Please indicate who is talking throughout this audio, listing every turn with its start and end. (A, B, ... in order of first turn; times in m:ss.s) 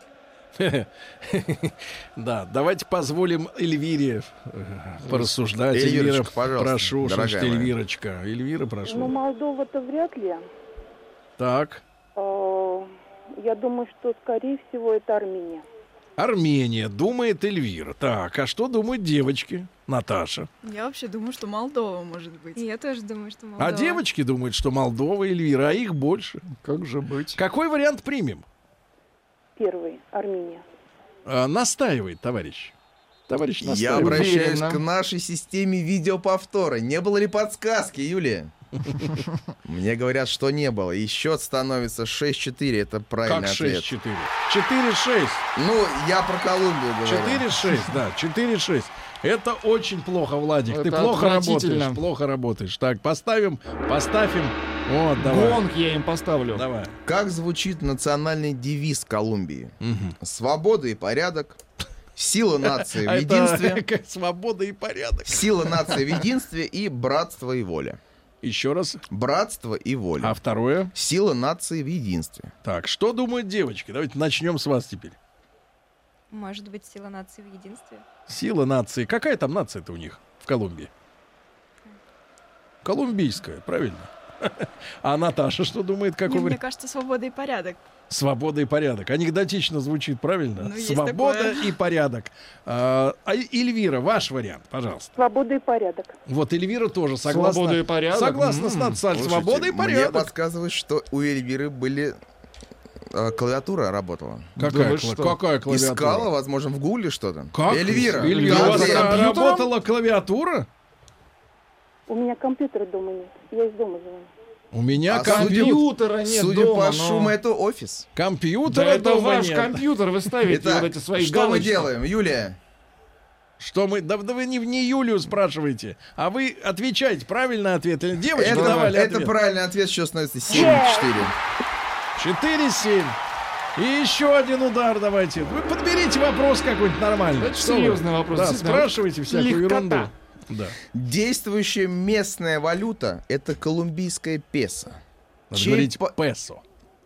0:00.6-0:09.1 A
0:05.1-0:07.7 B
0:08.8-0:10.4 C
0:11.4-0:11.8 A
0:12.1-0:12.9 C
0:13.4-0:15.6 C
0:16.2-0:20.5 A
0:20.6-0:22.6 D
0:22.5-0:24.0 E
0:23.6-0:26.4 A
0:26.6-0:27.4 F
0:27.4-0:28.4 A
0:29.6-0:30.6 C
0:31.2-0:32.7 A
0:33.3-0:34.2 A
0:33.6-0:38.5 B
0:33.6-0:34.8 F
0:39.6-0:43.9 B
0:43.2-0:45.4 A
0:45.6-0:47.5 B
0:47.0-0:55.6 A
0:50.7-0:52.0 F
0:55.2-0:56.6 F
0:56.5-0:57.0 A
0:57.0-1:01.6 B
0:59.8-1:00.2 A
1:02.2-1:03.8 B
1:02.8-1:05.5 A
1:05.2-1:08.0 B
1:08.4-1:09.0 A
1:09.1-1:10.4 B
1:10.2-1:10.9 A
1:10.9-1:12.5 B
1:12.6-1:15.2 A
1:16.3-1:18.0 E
1:18.3-1:20.9 A
1:22.8-1:26.6 A
1:26.2-1:27.8 D
1:28.1-1:35.2 A
1:30.6-1:31.7 D
1:35.2-1:36.1 C
1:36.3-1:40.3 A
1:37.2-1:39.0 F
1:39.1-1:42.2 B
1:43.1-1:44.5 B
1:44.6-1:45.4 F
1:44.6-1:46.3 A
1:45.7-1:49.2 B
1:47.5-1:50.7 A
1:48.2-1:49.7 F
1:52.1-1:54.3 C
1:54.7-1:55.8 A
1:55.1-1:58.0 B
1:55.2-1:57.3 F
1:58.2-1:59.8 A
1:58.6-2:01.9 F
2:00.5-2:02.6 B
2:03.6-2:09.3 A
2:08.4-2:11.3 B
2:08.4-2:09.0 F
2:12.2-2:13.2 A
2:13.8-2:20.8 A
2:17.4-2:20.1 F
2:20.9-2:25.0 B
2:25.5-2:26.1 B
2:25.5-2:26.6 A